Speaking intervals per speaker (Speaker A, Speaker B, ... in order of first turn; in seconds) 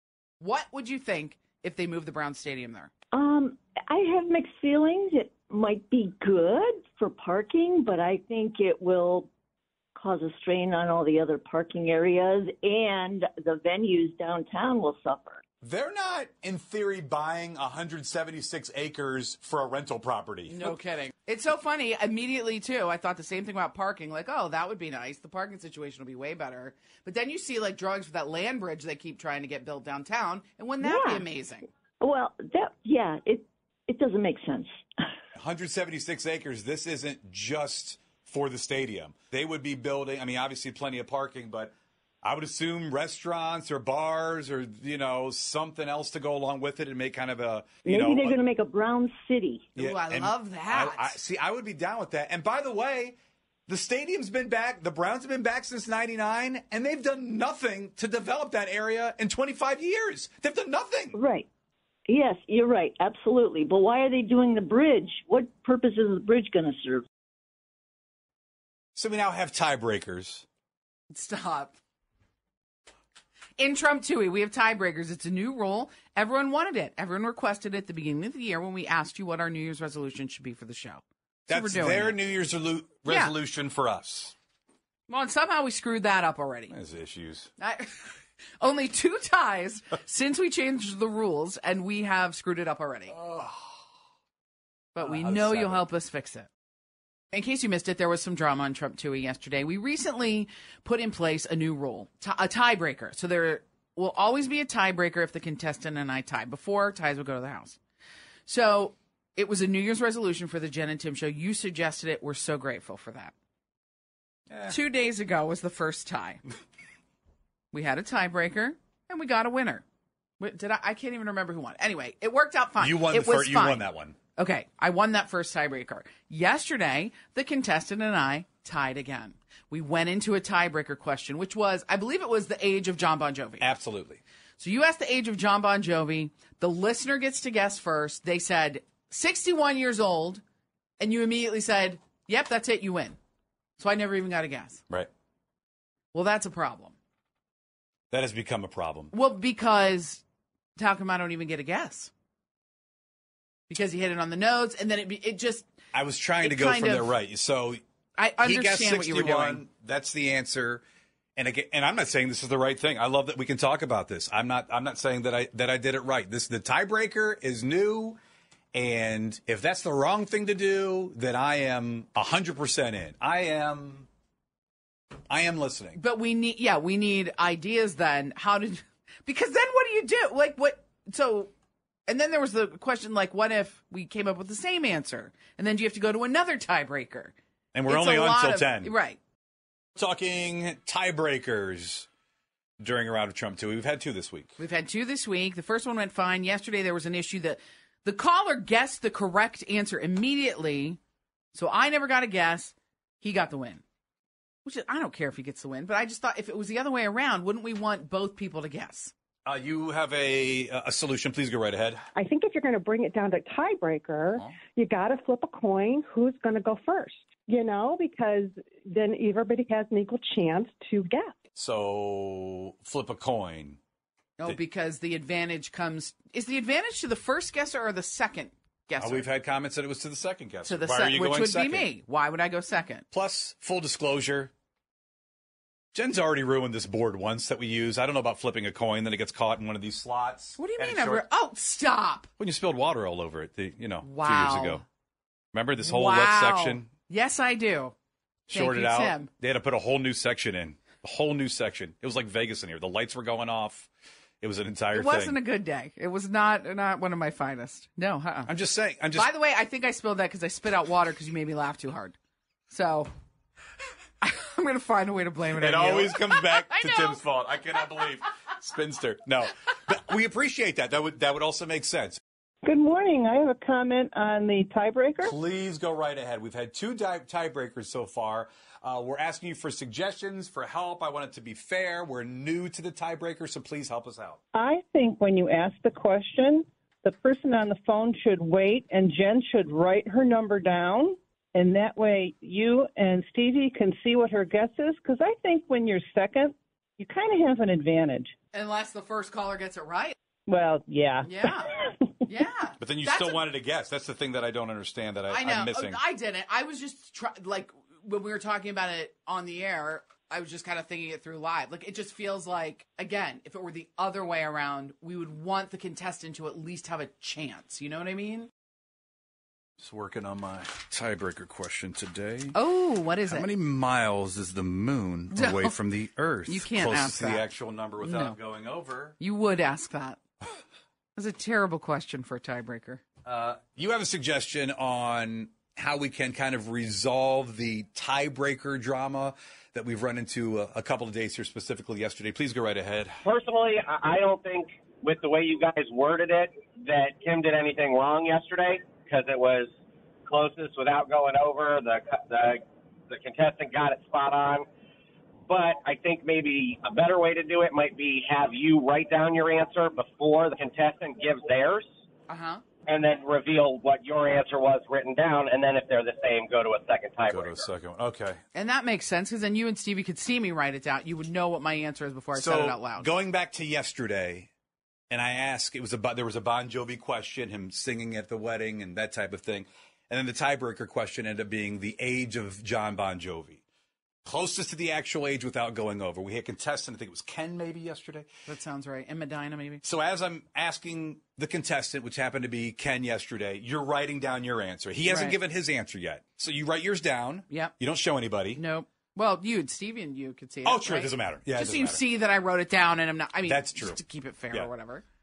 Speaker A: 0.4-2.9, 20.5-31.7, 49.8-51.2, 71.1-71.8, 73.6-82.2, 83.1-83.4, 85.1-86.7, 87.6-88.0, 88.6-93.2, 95.0-96.5, 97.3-107.8, 108.5-113.3, 114.7-116.4, 117.7-119.8, 120.4-133.7, 134.6-140.4, 141.0-143.2, 143.8-144.8, 146.1-146.9, 149.1-150.2, 150.8-152.1, 153.7-155.7, 156.4-157.2, 158.2-159.7, 176.0-181.5, 182.1-187.3, 187.9-189.2, 194.6-201.0, 201.5-203.8, 204.7-209.1, 224.4-229.3, 230.6-233.1, 240.6-242.3, 244.0-244.8, 245.8-247.9, 248.5-249.3, 254.9-258.5, 259.1-262.2, 262.7-263.1, 264.2-267.2, 298.5-300.2, 301.2-303.5, 305.3-318.5, 322.5-323.5, 325.3-325.8, 326.5-328.4, 329.2-330.2, 331.2-333.0, 362.3-362.6, 368.5-373.1, 388.5-389.8, 395.1-395.4, 397.5-397.8, 398.5-405.0
Speaker B: 3.1-9.3, 10.0-15.4, 30.8-31.2, 32.0-34.7, 47.9-49.7, 61.1-61.5, 62.1-67.0
Speaker C: 15.6-20.8, 35.4-41.7, 42.2-48.4, 49.8-53.2, 53.7-61.2, 69.0-70.5, 81.5-84.3, 86.7-87.5, 93.1-93.7, 95.0-95.9, 114.5-114.8, 122.8-124.2, 133.6-134.2, 148.1-149.1, 155.9-157.8, 158.4-160.8, 161.4-168.2, 168.7-174.1, 175.3-176.0, 187.7-188.9, 190.0-192.1, 192.8-194.6, 209.5-212.0, 221.6-223.8, 229.0-231.9, 233.1-234.5, 235.9-241.3, 242.4-244.8, 245.5-246.9, 248.5-253.9, 254.4-255.4, 258.5-259.3, 265.6-272.2, 275.2-284.4, 302.8-306.0, 319.8-322.6, 323.2-329.1, 333.2-343.1, 367.3-368.4, 372.3-374.5, 375.1-383.6, 384.2-388.3, 389.8-398.6, 400.6-402.0, 403.4-404.0
Speaker D: 212.2-221.3
Speaker E: 272.6-275.4, 284.5-298.3, 300.5-302.0
Speaker F: 343.2-349.7, 350.3-354.7, 355.5-361.9, 362.9-367.7